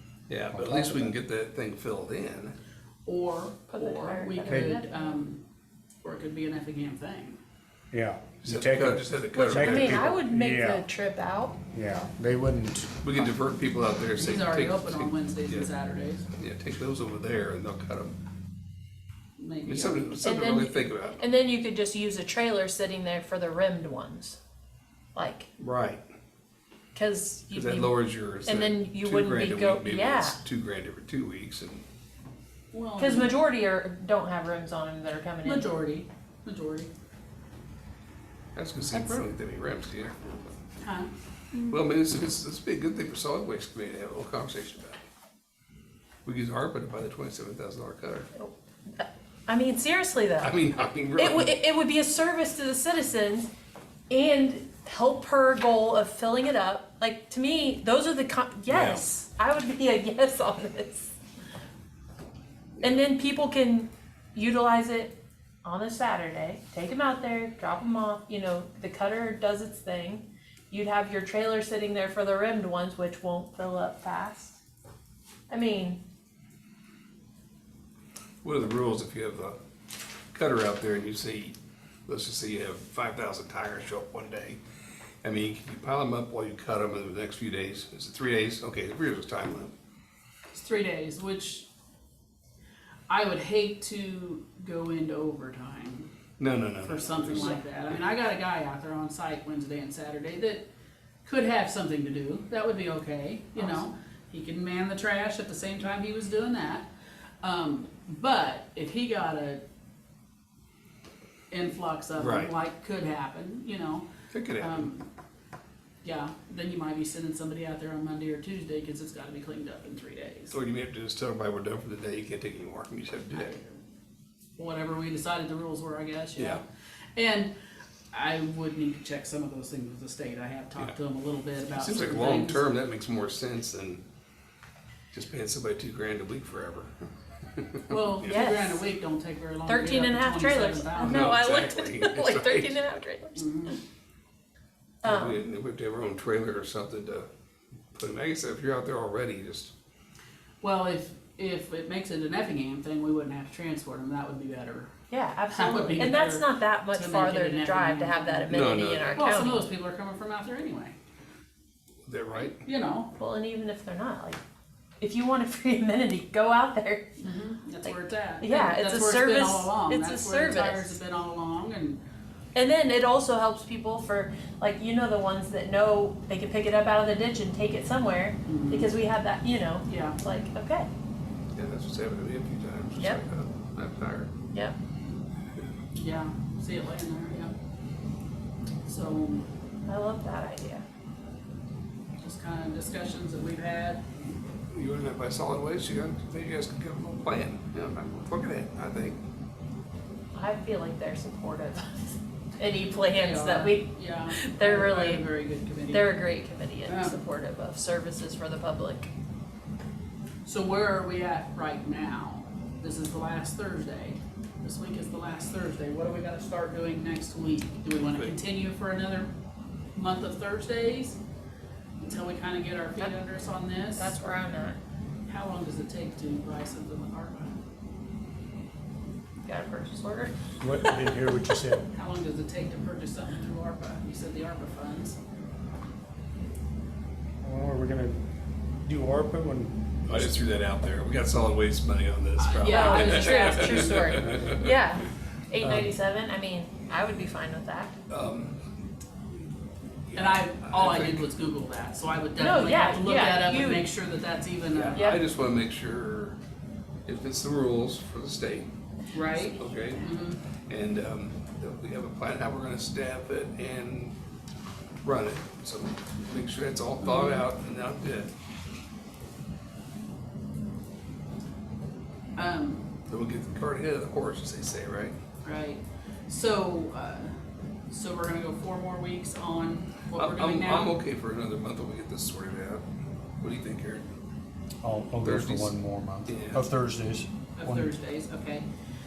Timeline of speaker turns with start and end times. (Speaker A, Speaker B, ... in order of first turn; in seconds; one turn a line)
Speaker A: 0.3-2.5
Speaker B: 0.5-1.1
Speaker C: 3.0-5.4
Speaker D: 3.7-5.2
Speaker B: 4.5-4.8
Speaker C: 6.0-7.4
Speaker B: 7.9-10.8
Speaker A: 8.4-10.2
Speaker D: 9.3-11.6
Speaker B: 11.7-13.0
Speaker A: 13.0-15.7
Speaker C: 14.2-16.2
Speaker A: 16.3-18.1
Speaker C: 19.4-20.2
Speaker A: 19.6-21.2
Speaker D: 20.2-24.4
Speaker D: 25.1-25.5
Speaker A: 25.6-26.0
Speaker D: 26.9-27.9
Speaker A: 27.5-31.8
Speaker D: 28.4-30.4
Speaker C: 32.7-33.4
Speaker D: 33.0-35.7
Speaker C: 35.4-36.9
Speaker A: 38.5-40.5
Speaker D: 38.9-39.2
Speaker C: 40.8-41.1
Speaker A: 41.7-45.0
Speaker A: 46.2-48.3
Speaker D: 48.3-50.6
Speaker A: 50.4-51.6
Speaker D: 51.1-53.5
Speaker D: 54.1-61.1
Speaker A: 58.7-59.0
Speaker D: 62.8-74.6
Speaker D: 75.5-76.0
Speaker A: 78.4-79.5
Speaker A: 80.3-81.5
Speaker A: 82.1-84.6
Speaker A: 85.2-89.7
Speaker C: 90.5-91.7
Speaker C: 93.1-96.1
Speaker A: 96.4-97.6
Speaker C: 96.8-100.7
Speaker C: 101.2-106.9
Speaker C: 107.4-109.6
Speaker C: 111.5-115.0
Speaker A: 112.2-112.5
Speaker A: 114.3-114.9
Speaker C: 116.0-120.6
Speaker A: 120.5-123.6
Speaker C: 123.3-123.7
Speaker C: 124.6-126.6
Speaker A: 126.3-126.6
Speaker C: 127.2-127.5
Speaker C: 128.1-132.6
Speaker A: 131.7-134.0
Speaker A: 135.1-136.9
Speaker A: 137.6-138.4
Speaker C: 137.9-141.3
Speaker D: 138.2-138.9
Speaker D: 139.6-143.8
Speaker A: 141.0-143.0
Speaker C: 143.3-143.8
Speaker D: 145.0-145.4
Speaker A: 145.0-147.3
Speaker A: 147.9-149.7
Speaker C: 150.6-154.9
Speaker D: 155.1-159.7
Speaker C: 155.5-160.9
Speaker A: 158.5-159.2
Speaker A: 162.1-162.6
Speaker C: 162.6-163.1
Speaker D: 163.2-164.4
Speaker D: 165.0-167.2
Speaker C: 167.2-172.0
Speaker D: 167.8-171.0
Speaker D: 172.5-180.9
Speaker C: 178.4-178.9
Speaker C: 179.8-180.2
Speaker A: 181.5-184.3
Speaker D: 183.0-183.2
Speaker C: 185.9-187.5
Speaker C: 188.8-189.5
Speaker D: 189.9-190.8
Speaker C: 192.2-194.1
Speaker A: 194.7-199.2
Speaker D: 200.3-205.3
Speaker C: 203.1-206.2
Speaker D: 205.8-209.1
Speaker C: 206.9-207.2
Speaker C: 210.4-219.3
Speaker A: 217.9-218.4
Speaker C: 219.9-221.2
Speaker C: 222.0-224.2
Speaker D: 223.9-224.8
Speaker C: 225.2-227.6
Speaker D: 229.5-230.5
Speaker B: 230.6-231.8
Speaker C: 231.9-235.2
Speaker B: 237.4-238.2
Speaker B: 238.8-240.3
Speaker A: 240.1-244.6
Speaker C: 242.4-243.9
Speaker D: 242.6-247.9
Speaker A: 245.6-245.9
Speaker A: 248.1-248.6
Speaker A: 250.1-251.2
Speaker C: 250.2-255.0
Speaker D: 252.4-253.9
Speaker A: 254.7-256.4
Speaker D: 254.9-255.2
Speaker A: 257.1-258.7
Speaker C: 259.1-260.4
Speaker A: 259.6-260.1
Speaker A: 260.7-264.1
Speaker A: 265.0-268.3
Speaker C: 267.0-267.4
Speaker C: 272.4-272.9
Speaker A: 273.1-275.1
Speaker C: 275.4-277.3
Speaker C: 277.9-280.9
Speaker A: 280.1-282.8
Speaker A: 283.4-284.1
Speaker B: 284.8-287.9
Speaker A: 285.2-286.6
Speaker C: 287.6-288.6